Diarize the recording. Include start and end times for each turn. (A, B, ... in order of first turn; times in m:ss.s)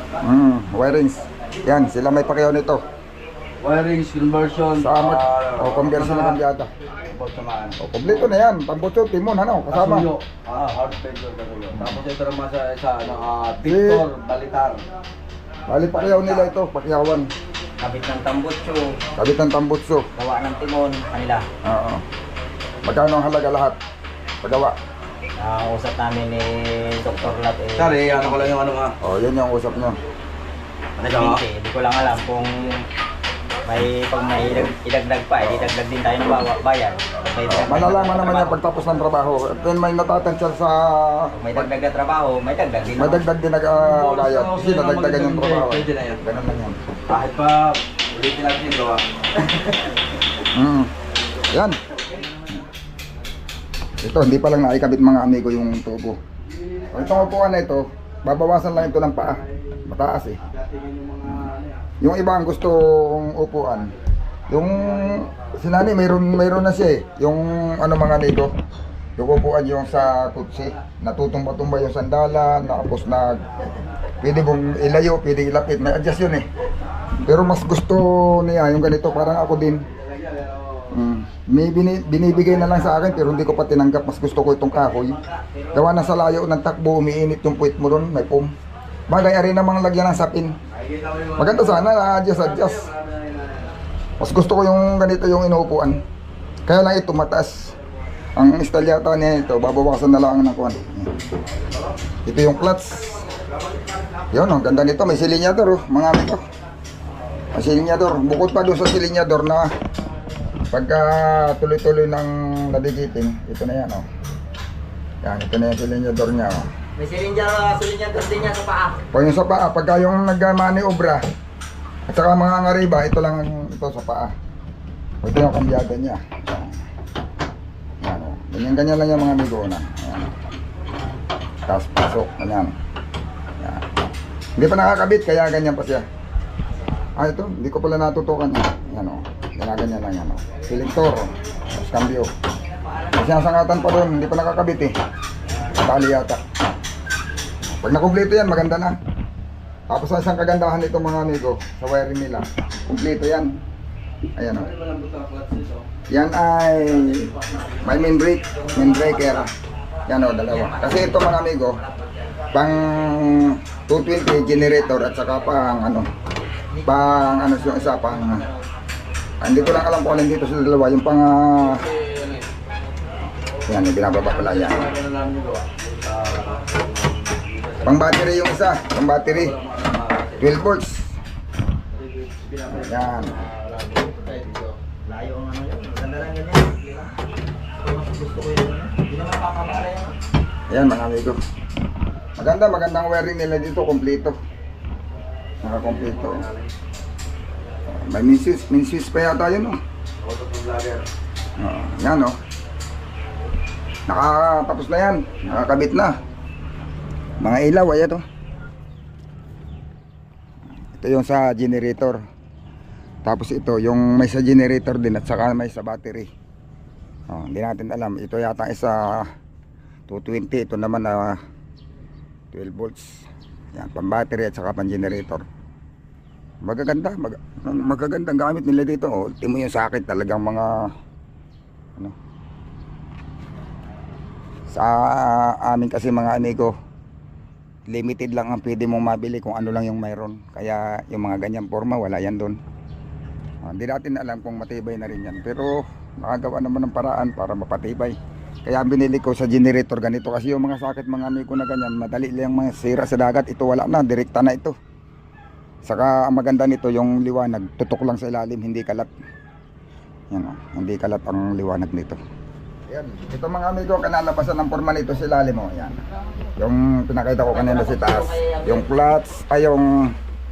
0:00.2-0:02.8 A
0:03.6-0:06.4 B
0:04.8-0:06.7 A
0:07.1-0:08.3 B
0:07.8-0:10.1 A
0:09.7-0:14.8 B
0:11.8-0:12.0 A
0:13.7-0:14.0 A
0:15.7-0:17.3 A
0:17.8-0:19.0 C
0:19.2-0:20.1 A
0:20.2-0:21.4 C
0:21.7-0:22.0 A
0:22.8-0:23.8 A
0:24.4-0:24.8 A
0:25.4-0:28.6 C
0:27.8-0:29.0 B
0:29.0-0:30.0 A
0:31.0-0:32.8 C
0:31.0-0:31.4 B
0:33.7-0:38.6 C
0:35.4-0:35.7 A
0:37.5-0:41.7 A
0:41.4-0:43.2 C
0:43.0-0:46.8 A
0:43.8-0:46.2 B
0:47.1-0:49.7 B
0:50.5-0:50.9 A
0:51.5-0:51.8 A
0:54.0-0:56.2 A
0:56.5-0:57.3 B
0:56.9-1:00.4 A
1:00.4-1:01.8 B
1:01.2-1:01.5 A
1:02.0-1:03.9 A
1:04.5-1:08.5 A
1:04.6-1:05.6 B
1:09.2-1:13.4 A
1:14.2-1:16.5 A
1:17.2-1:19.9 A
1:19.8-1:21.0 B
1:20.9-1:25.2 A
1:22.3-1:23.5 B
1:24.8-1:26.0 C
1:25.7-1:28.5 A
1:29.1-1:30.5 A
1:30.7-1:33.7 B
1:31.4-1:32.9 A
1:34.2-1:36.0 A
1:36.7-1:37.7 A
1:38.4-1:41.1 A
1:42.3-1:43.3 A
1:43.5-1:44.2 B
1:44.3-1:46.4 A
1:47.5-1:49.7 A
1:50.7-1:54.1 A
1:55.2-1:56.7 A
1:57.0-1:59.0 C
1:59.1-2:01.2 A
2:02.1-2:04.3 A
2:05.2-2:06.8 A
2:08.0-2:10.4 A
2:11.7-2:12.7 A
2:14.6-2:16.0 A
2:17.2-2:22.3 A
2:23.1-2:24.9 A
2:25.8-2:26.4 A
2:27.7-2:29.0 A
2:29.9-2:33.5 A
2:34.4-2:34.7 A
2:34.5-2:35.9 B
2:36.1-2:37.3 A
2:37.1-2:37.7 B
2:37.8-2:39.5 A
2:38.5-2:39.5 C
2:40.1-2:41.8 A
2:40.4-2:42.6 C
2:42.5-2:46.1 A
2:46.7-2:48.6 C
2:46.8-2:48.4 A
2:49.4-2:51.8 A
2:51.6-2:52.5 B
2:53.7-2:54.9 A
2:54.2-3:00.6 B
2:57.8-2:59.6 A
3:00.4-3:01.1 A
3:01.9-3:04.7 B
3:02.7-3:03.4 A
3:05.0-3:07.1 C
3:07.8-3:10.1 C
3:10.7-3:11.4 A
3:12.4-3:14.4 A
3:15.6-3:16.4 A
3:15.7-3:16.7 B
3:17.9-3:19.8 A
3:20.2-3:21.1 B
3:21.6-3:22.4 A
3:24.1-3:26.2 A
3:27.4-3:28.2 A
3:31.0-3:32.2 A
3:33.3-3:36.3 A
3:37.3-3:39.3 A
3:40.1-3:41.4 A
3:42.5-3:45.4 A
3:46.6-3:50.9 A
3:54.7-3:56.7 A
3:57.9-4:02.6 A
4:03.6-4:14.8 A
4:15.9-4:19.1 A
4:20.3-4:22.2 A
4:22.9-4:26.0 A
4:26.6-4:30.2 A
4:27.5-4:28.8 C